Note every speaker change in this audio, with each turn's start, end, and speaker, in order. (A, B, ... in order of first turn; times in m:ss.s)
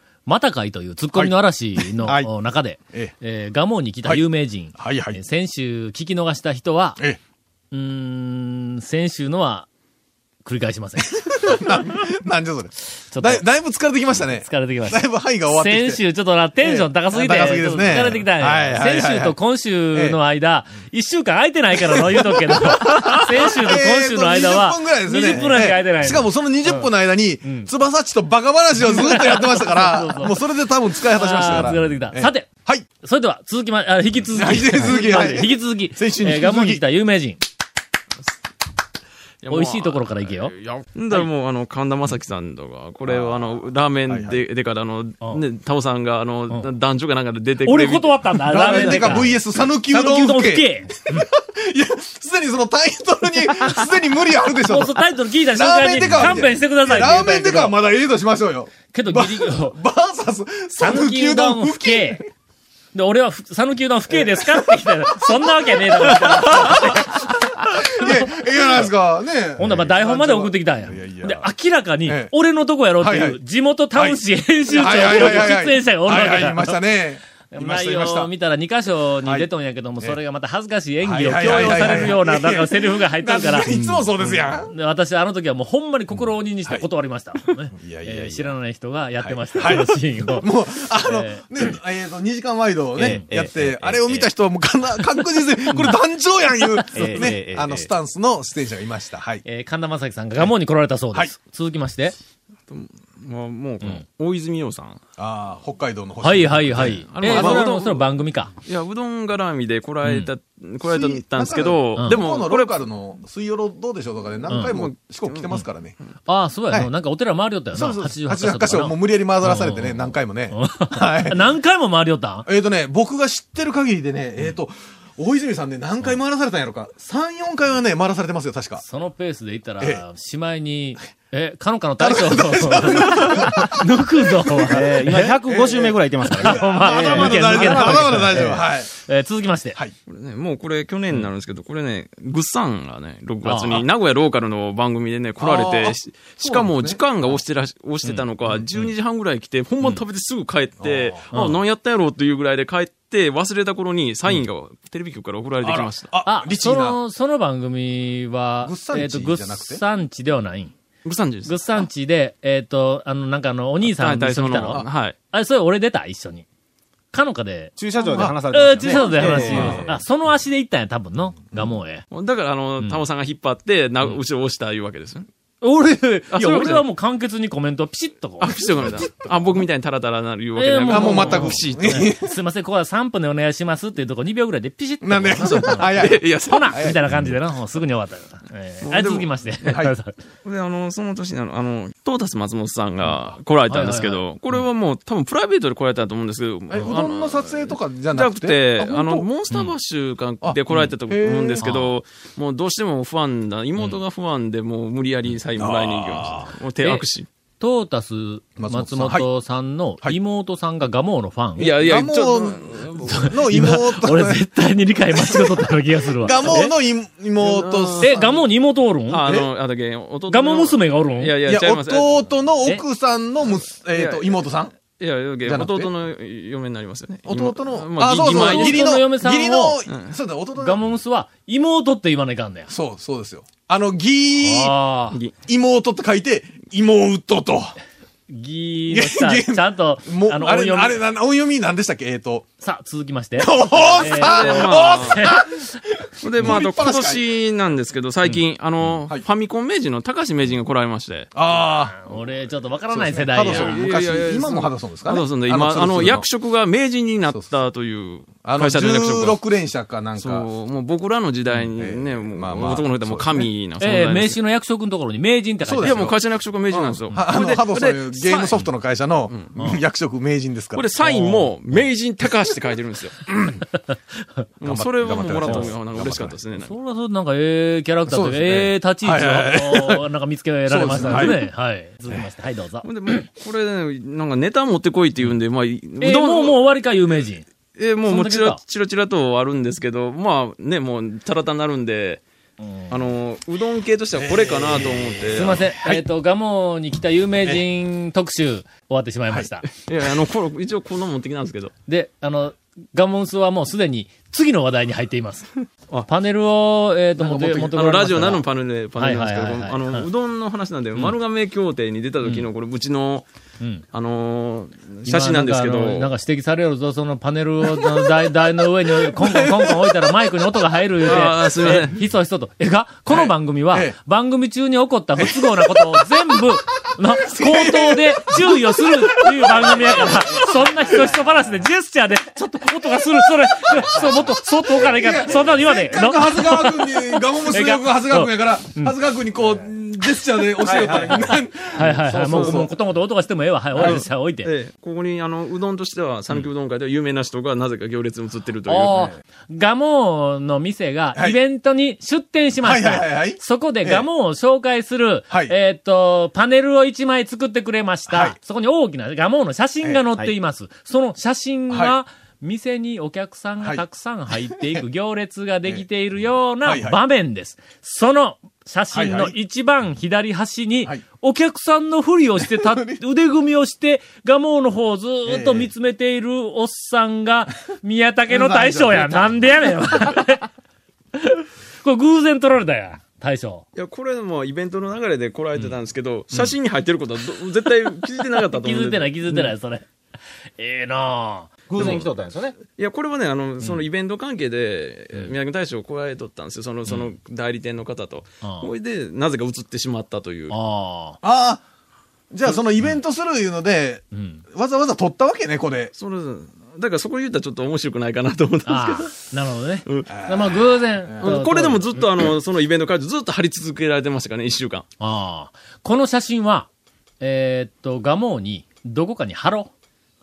0:00.3-0:07.0 A
0:01.1-0:02.3 B
0:04.8-0:05.2 B
0:07.7-0:09.7 A
0:10.4-0:11.6 A
0:11.2-0:16.0 B
0:13.1-0:13.5 A
0:14.1-0:26.9 A
0:16.6-0:19.4 B
0:19.9-0:20.2 B
0:22.1-0:32.9 B
0:27.4-0:27.7 A
0:28.8-0:30.4 A
0:31.1-0:32.5 A
0:33.0-0:37.4 A
0:34.3-0:36.8 B
0:39.4-0:49.3 C
0:39.5-0:40.5 A
0:43.1-0:44.4 B
0:47.6-0:51.2 A
0:48.5-0:55.0 B
0:54.7-0:57.8 A
0:55.5-1:02.2 B
0:58.9-0:59.8 A
1:00.8-1:02.2 A
1:02.9-1:08.9 A
1:04.1-1:04.8 B
1:05.7-1:11.5 B
1:09.6-1:16.8 A
1:12.0-1:12.3 B
1:13.0-1:13.4 B
1:14.0-1:18.3 B
1:17.5-1:31.4 A
1:21.0-1:24.7 B
1:26.1-1:26.8 B
1:27.7-1:28.6 B
1:29.2-1:39.4 B
1:33.0-1:33.3 A
1:33.0-1:34.0 D
1:35.7-1:36.0 A
1:36.9-1:37.9 D
1:37.0-1:37.3 A
1:39.4-1:42.2 A
1:42.7-1:45.0 C
1:45.2-1:47.7 B
1:46.2-1:48.5 A
1:46.7-1:48.1 C
1:48.6-1:52.8 C
1:50.0-1:50.3 A
1:50.8-1:56.0 B
1:54.7-1:55.7 C
1:56.3-2:02.5 A
1:57.7-2:01.4 B
2:02.5-2:08.8 B
2:08.8-2:15.4 A
2:12.0-2:13.8 B
2:14.6-2:18.7 D
2:15.5-2:18.9 B
2:16.2-2:19.8 A
2:20.1-2:36.1 C
2:23.4-2:23.9 A
2:25.4-2:27.3 B
2:30.8-2:31.3 B
2:31.3-2:31.6 A
2:35.6-2:37.0 B
2:36.3-2:40.7 A
2:38.6-2:39.8 B
2:41.0-2:41.6 C
2:41.4-2:46.5 A
2:43.8-2:45.2 C
2:47.1-2:52.0 A
2:47.8-2:50.0 D
2:48.1-2:49.9 B
2:49.4-2:49.8 C
2:52.1-2:55.3 C
2:55.6-2:58.6 A
2:56.3-2:56.8 C
2:58.4-3:02.1 C
3:00.6-3:10.1 A
3:00.9-3:02.3 B
3:05.0-3:07.0 B
3:05.3-3:06.8 C
3:08.8-3:09.4 C
3:09.7-3:09.9 B
3:10.4-3:27.3 C
3:13.7-3:14.3 A
3:16.7-3:19.3 B
3:20.4-3:21.6 B
3:21.6-3:22.0 A
3:25.6-3:26.5 B
3:26.8-3:27.1 A
3:27.6-3:31.7 A
3:28.6-3:29.3 B
3:31.6-3:33.2 C
3:31.6-3:34.4 B
3:33.1-3:36.7 A
3:35.2-3:35.6 B
3:36.2-3:38.4 B
3:37.4-3:38.2 C
3:38.0-3:39.2 A
3:39.1-3:42.3 C
3:40.3-3:41.4 A
3:41.4-3:44.7 B
3:43.9-3:48.9 C
3:45.4-3:45.9 B
3:47.2-3:50.8 B
3:48.2-3:49.8 A
3:50.6-3:52.7 A
3:52.7-3:54.8 B
3:54.4-3:55.2 A
3:55.4-3:57.8 B
3:58.3-4:01.0 A
3:58.9-4:02.5 B
4:02.6-4:05.4 A
4:03.4-4:05.8 B
4:03.8-4:05.2 C
4:06.2-4:11.3 C
4:06.4-4:07.2 B
4:11.3-4:12.0 B
4:11.9-4:13.8 A
4:12.9-4:16.3 B
4:13.3-4:19.4 C
4:17.3-4:17.6 B
4:18.4-4:20.5 B
4:20.2-4:24.4 C
4:21.8-4:23.5 B
4:23.8-4:26.2 A
4:25.6-4:26.2 B
4:25.8-4:28.7 C
4:26.7-4:30.9 B
4:30.8-4:33.2 C
4:31.0-4:31.5 A
4:33.3-4:33.6 B
4:34.6-4:36.7 C
4:34.6-4:36.4 B
4:35.4-4:35.7 A
4:36.6-4:43.0 A
4:38.1-4:38.7 C
4:39.0-4:40.0 B
4:40.7-4:41.4 B
4:40.9-4:41.4 C
4:42.8-4:46.6 C
4:46.0-4:47.5 A
4:47.8-4:52.2 C
4:48.0-4:48.6 A
4:52.6-4:52.9 A
4:52.9-4:55.7 C
4:54.2-4:55.2 B
4:55.3-4:59.7 A
4:59.7-5:01.7 C
5:01.9-5:10.1 A
5:07.2-5:07.6 B
5:07.3-5:13.3 C
5:13.9-5:16.1 C
5:15.0-5:38.9 A
5:19.2-5:19.4 C
5:21.0-5:22.0 C
5:23.1-5:24.0 B
5:25.2-5:25.8 B
5:27.2-5:30.8 B
5:33.8-5:34.2 B
5:34.8-5:42.7 B
5:40.6-5:41.3 C
5:41.8-5:44.5 A
5:42.0-5:42.7 C
5:43.8-5:49.1 C
5:48.6-6:20.5 A
5:52.6-5:54.1 B
5:58.1-5:58.4 B
6:01.7-6:02.0 B
6:03.6-6:04.8 B
6:06.6-6:07.0 B
6:08.9-6:09.3 B
6:12.4-6:13.0 B
6:15.3-6:15.7 B
6:18.3-6:18.9 B
6:18.5-6:19.1 C
6:21.2-6:23.6 A
6:23.7-6:29.6 C
6:28.5-6:29.9 A
6:30.6-6:32.0 A
6:31.7-6:32.6 D
6:31.8-6:32.0 C
6:32.8-6:40.6 C
6:38.4-6:38.7 A
6:40.5-6:41.2 A
6:41.2-6:41.6 B
6:42.3-6:45.9 B
6:44.1-6:44.4 A
6:45.9-6:49.2 C
6:48.7-6:52.3 A
6:50.1-6:51.4 B
6:51.2-6:54.9 C
6:55.0-6:56.7 A
6:57.2-6:59.7 A